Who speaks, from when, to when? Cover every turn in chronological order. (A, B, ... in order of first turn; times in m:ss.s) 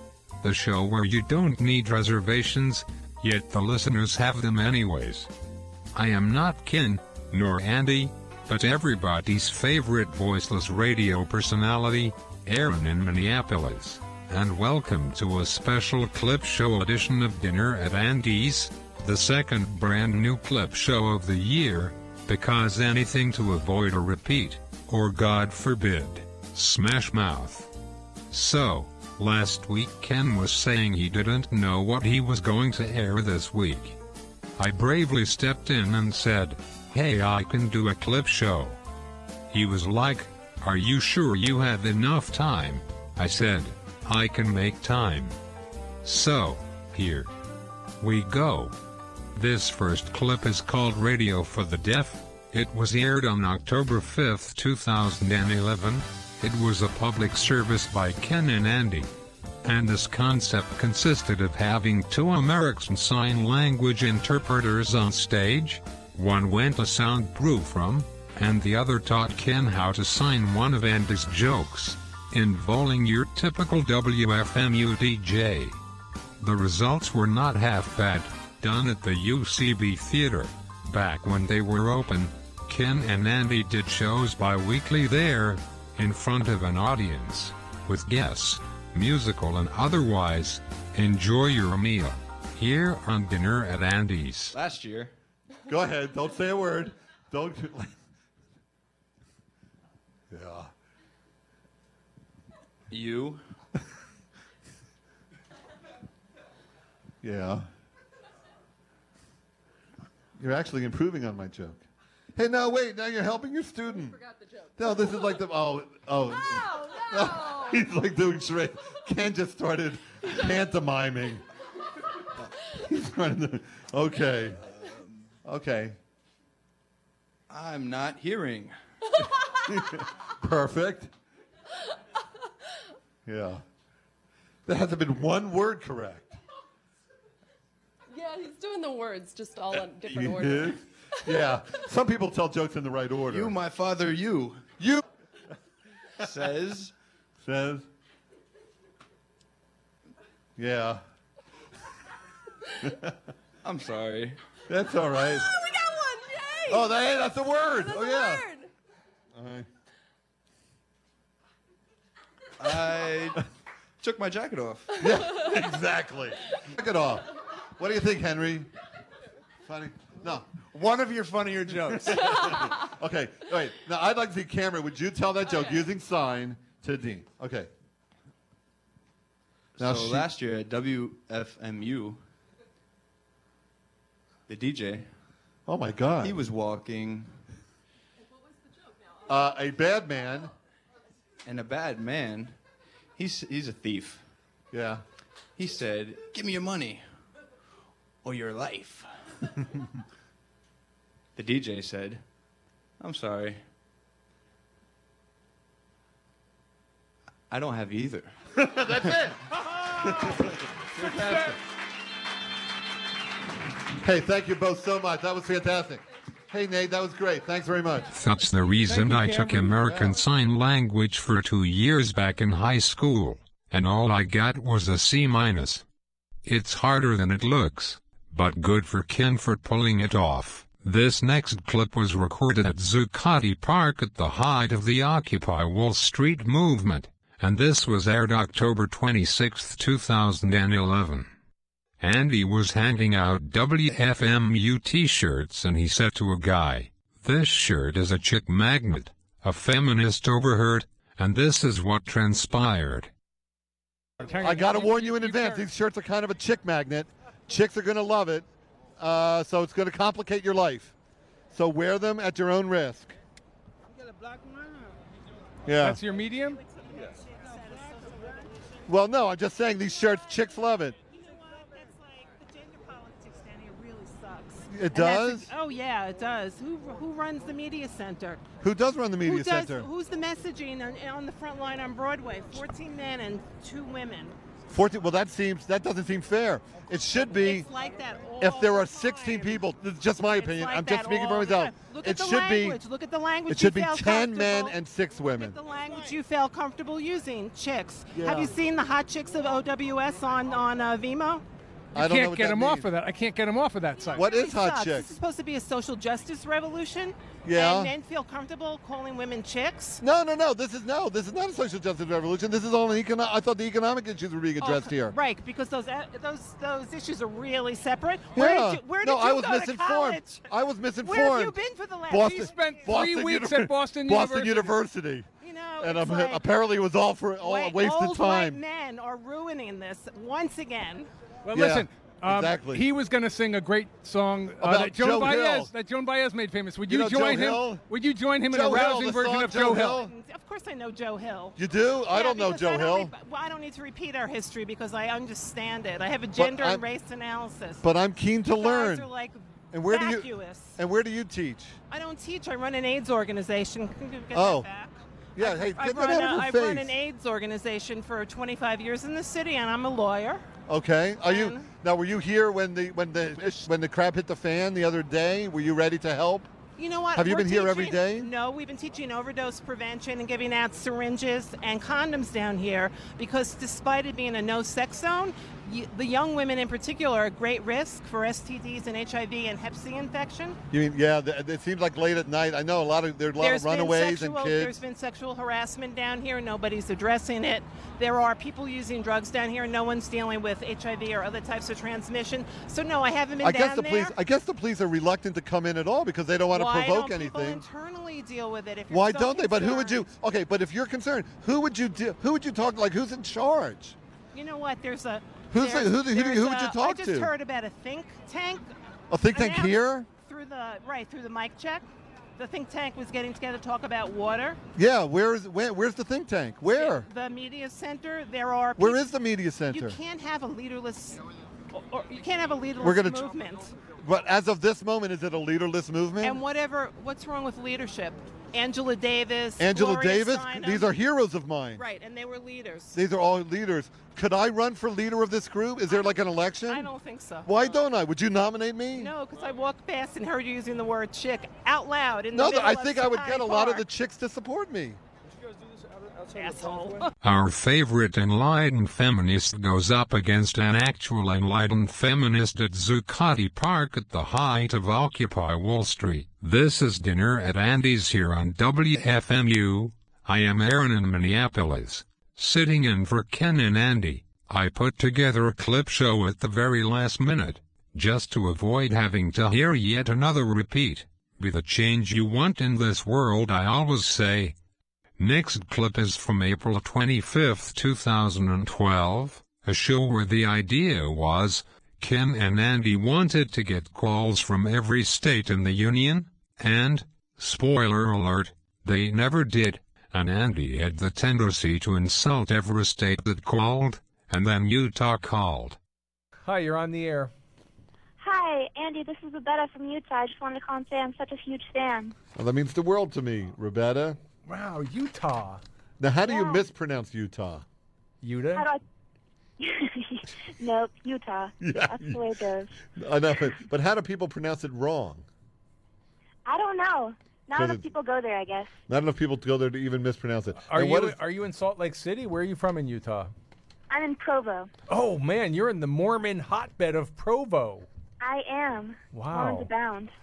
0:00.4-0:05.3 A
0:05.9-0:27.7 A
0:28.3-0:34.0 A
0:34.6-0:38.8 A
0:39.5-0:45.4 A
0:46.0-0:47.3 A
0:48.0-0:48.8 A
0:49.3-0:59.1 A
0:59.6-1:15.8 A
1:16.4-1:34.6 A
1:34.5-1:35.1 B
1:35.7-1:37.9 C
1:40.3-1:40.7 C
1:42.9-1:43.4 B
1:47.2-1:47.7 C
1:50.4-1:51.8 C
1:52.4-1:54.2 C
1:54.0-1:55.3 D
1:54.8-2:01.4 C
1:56.4-1:57.9 D
2:02.6-2:04.6 C
2:05.4-2:06.0 C
2:07.5-2:08.8 B
2:09.7-2:11.1 C
2:13.3-2:13.6 C
2:14.7-2:16.3 C
2:18.1-2:20.8 D
2:20.1-2:23.6 C
2:23.3-2:24.6 B
2:26.2-2:26.9 B
2:27.4-2:27.9 C
2:30.6-2:31.0 C
2:32.8-2:33.1 C
2:33.6-2:34.4 B
2:34.7-2:35.5 C
2:35.2-2:38.7 D
2:36.7-2:38.5 C
2:39.4-2:39.7 C
2:42.6-2:43.5 B
2:44.0-2:45.0 B
2:45.0-2:48.7 C
2:49.7-2:50.5 C
2:50.6-2:52.6 B
2:52.0-2:57.7 C
2:59.8-3:00.3 C
2:59.8-3:02.2 B
3:04.5-3:05.1 B
3:05.7-3:06.4 C
3:06.2-3:07.3 B
3:08.7-3:09.3 D
3:09.3-3:10.5 C
3:11.4-3:12.6 B
3:13.2-3:14.2 B
3:14.7-3:15.0 C
3:15.6-3:17.0 B
3:18.2-3:19.1 B
3:21.4-3:22.2 B
3:23.0-3:23.6 B
3:27.5-3:28.4 B
3:28.6-3:31.6 C
3:31.0-3:31.5 E
3:34.0-3:38.2 C
3:38.1-3:45.8 A
3:38.9-3:39.9 E
3:39.8-3:40.2 C
3:46.4-4:01.3 A
4:02.0-4:13.1 A
4:14.2-4:15.7 E
4:14.4-4:18.5 C
4:19.0-4:20.9 C
4:21.5-4:23.2 C
4:25.7-4:26.0 C
4:25.8-4:26.6 E
4:26.8-4:28.7 F
4:28.9-4:31.0 C
4:31.1-4:38.5 F
4:34.7-4:35.5 C
4:38.6-4:39.9 C
4:39.2-4:44.4 F
4:44.7-4:47.7 C
4:47.3-4:49.6 F
4:48.4-4:52.8 C
4:50.3-4:54.8 F
4:53.5-4:55.6 C
4:55.3-5:01.4 F
4:58.1-4:58.6 C
5:01.9-5:02.9 C
5:02.0-5:04.2 E
5:04.1-5:10.0 F
5:04.1-5:05.2 C
5:07.4-5:07.9 C
5:10.0-5:15.2 C
5:14.6-5:20.4 F
5:18.3-5:21.6 C
5:21.0-5:22.6 F
5:22.1-5:25.3 C
5:22.2-5:24.8 E
5:25.4-5:26.4 F
5:25.8-5:28.6 C
5:27.4-5:31.1 F
5:31.4-5:40.0 E
5:31.5-5:32.9 C
5:34.6-5:35.7 C
5:36.9-5:37.8 C
5:38.5-5:40.1 C
5:39.9-5:41.6 F
5:41.6-5:43.1 C
5:42.1-5:47.8 F
5:46.4-5:46.8 C
5:47.8-5:49.1 C
5:48.5-5:50.8 F
5:49.7-5:51.8 C
5:51.9-6:00.4 F
5:54.3-5:54.7 C
5:55.4-5:56.9 C
6:00.7-6:06.5 C
6:01.2-6:01.7 F
6:06.8-6:20.6 F
6:07.1-6:08.3 C
6:20.7-6:24.8 C
6:23.4-6:34.1 F
6:33.4-6:37.6 C
6:36.5-6:40.0 F
6:38.9-6:44.0 C
6:44.3-6:48.7 F
6:45.5-6:47.3 C
6:49.1-6:50.1 C
6:49.3-6:54.6 F
6:54.8-6:57.1 C
6:56.7-6:59.0 F
6:58.8-7:00.0 C
6:59.7-7:03.7 F
7:02.8-7:03.3 C
7:04.0-7:06.4 C
7:06.2-7:10.9 F
7:09.6-7:11.8 C
7:11.8-7:13.0 F
7:12.9-7:16.9 C
7:16.7-7:17.5 F
7:17.4-7:19.1 C
7:19.0-7:23.8 F
7:22.3-7:25.0 C
7:26.3-7:27.1 F
7:27.2-7:54.6 A
7:55.2-8:15.8 A
8:16.4-8:17.3 E
8:18.2-8:22.1 G
8:22.4-8:24.2 C
8:24.5-8:25.6 E
8:26.0-8:27.6 C
8:26.2-8:26.6 G
8:28.2-8:28.7 E
8:28.5-8:28.8 G
8:29.6-8:32.7 G
8:31.6-8:32.2 C
8:32.9-8:35.3 C
8:36.5-8:38.8 G
8:37.5-8:37.9 C
8:38.9-8:41.2 C
8:40.6-8:43.3 E
8:43.9-8:44.7 G
8:44.9-8:47.9 E
8:48.2-8:50.1 G
8:49.1-8:49.7 E